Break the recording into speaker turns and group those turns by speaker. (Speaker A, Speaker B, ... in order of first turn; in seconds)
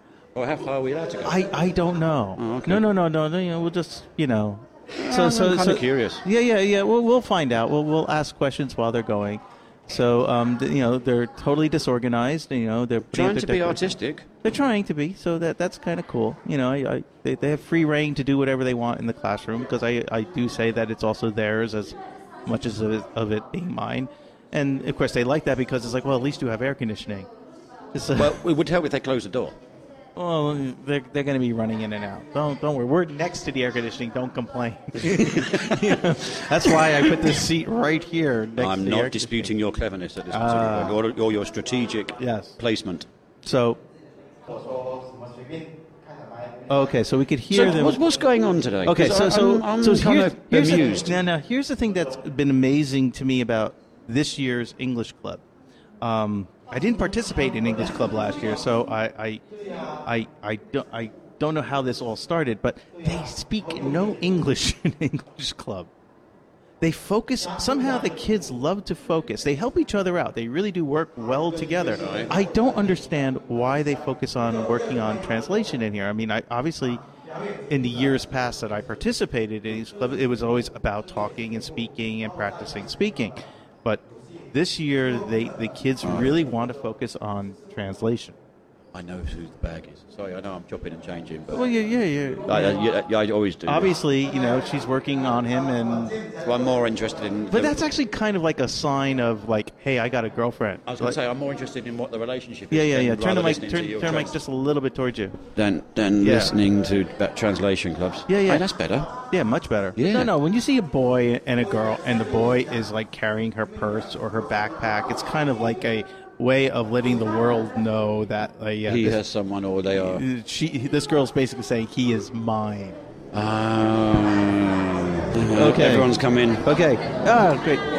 Speaker A: 0.3-1.4, 2.4-2.9, 5.0-6.2, 13.1-14.3, 28.1-29.6, 35.0-36.0, 38.6-43.1, 47.5-51.1, 72.0-72.3, 86.0-86.3, 88.9-91.6, 92.5-94.0, 96.4-97.8, 100.9-104.3, 105.6-109.1, 110.0-110.3, 118.9-120.2, 123.3-126.7
Speaker B: 1.2-27.3, 27.9-28.4, 30.1-39.5, 40.3-41.0, 42.2-42.5, 43.4-43.8, 46.7-48.0, 48.9-55.4, 56.0-59.4, 60.0-65.9, 66.8-77.0, 77.7-88.4, 91.5-92.8, 93.7-96.2, 97.5-101.2, 102.7-105.4, 106.2-106.5, 108.3-108.7, 109.3-119.2, 120.0-123.0, 125.5-127.9